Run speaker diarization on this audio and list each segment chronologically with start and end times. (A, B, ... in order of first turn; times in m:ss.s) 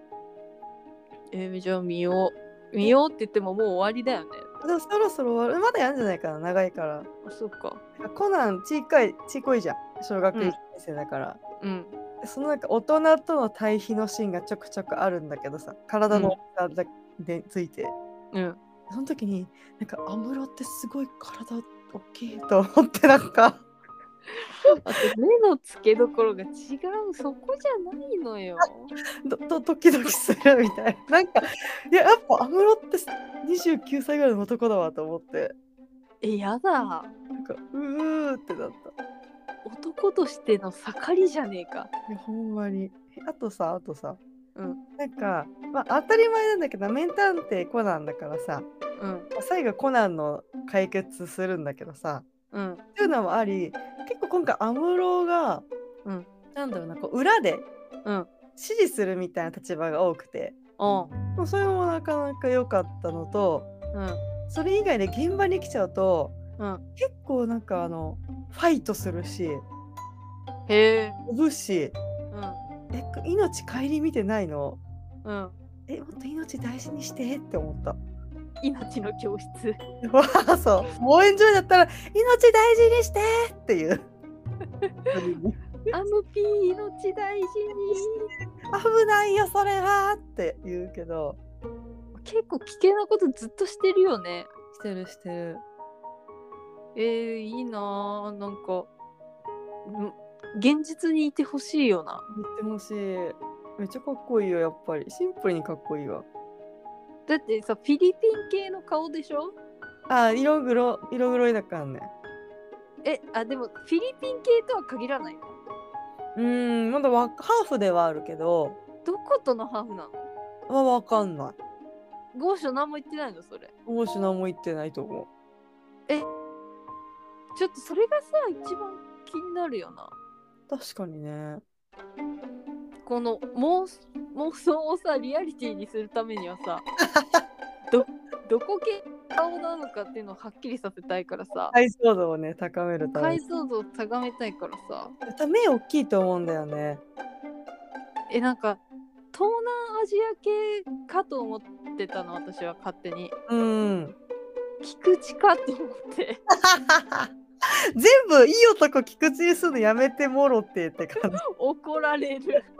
0:01.3-0:04.5 A
0:04.6-0:07.1 B
0:07.2-0:07.8 A
0:08.0-0:11.4 B
0:11.6-0:11.9 A
0:12.2-0:17.9 B
0:16.1-0:16.4 A
0:18.3-0:18.6 A
0:18.9-0:23.6 B
0:24.6-0:28.9 A
0:24.7-0:25.1 B
0:29.2-0:35.5 B
0:36.2-0:37.1 A
0:37.4-0:38.9 B
0:39.6-0:41.9 A
0:42.1-0:44.2 B
0:45.0-0:48.7 B
0:49.0-0:49.3 A
0:49.3-0:52.3 B
0:52.5-0:52.8 A
0:53.0-0:55.6 B
0:56.5-0:57.7 B
0:58.6-1:00.6 B
1:00.8-1:01.1 A
1:01.3-1:03.7 B
1:03.9-1:04.2 A
1:04.5-1:06.4 B
1:07.0-1:09.6 B
1:10.7-1:11.2 A
1:11.3-1:12.0 B
1:12.3-1:12.6 A
1:12.9-1:14.8 B
1:15.2-1:15.5 A
1:15.9-1:18.0 B
1:18.6-1:19.8 A
1:20.0-1:24.1 B
1:24.8-1:25.2 A
1:25.1-1:25.6 B
1:25.9-1:28.3 A
1:28.7-1:31.4 B
1:32.1-1:34.5 A
1:34.7-1:35.6 B
1:36.9-1:38.9 A
1:39.8-1:42.2 A
1:42.3-1:46.2 B
1:47.3-1:49.5 A
1:50.1-1:52.1 B
1:53.0-1:55.6 A
1:56.3-1:58.8 B
1:59.0-2:00.3 A
2:00.7-2:01.6 B
2:02.3-2:03.7 A
2:03.8-2:05.3 B
2:07.5-2:10.1 A
2:10.7-2:11.6 B
2:13.0-2:16.8 A
2:17.1-2:17.4 B
2:17.9-2:21.8 A
2:21.7-2:23.4 B
2:23.1-2:25.2 A
2:25.2-2:27.0 B
2:28.3-2:28.8 A
2:29.3-2:33.3 A
2:33.5-2:34.2 B
2:34.8-2:36.4 A
2:36.5-2:41.4 B
2:41.5-2:42.7 A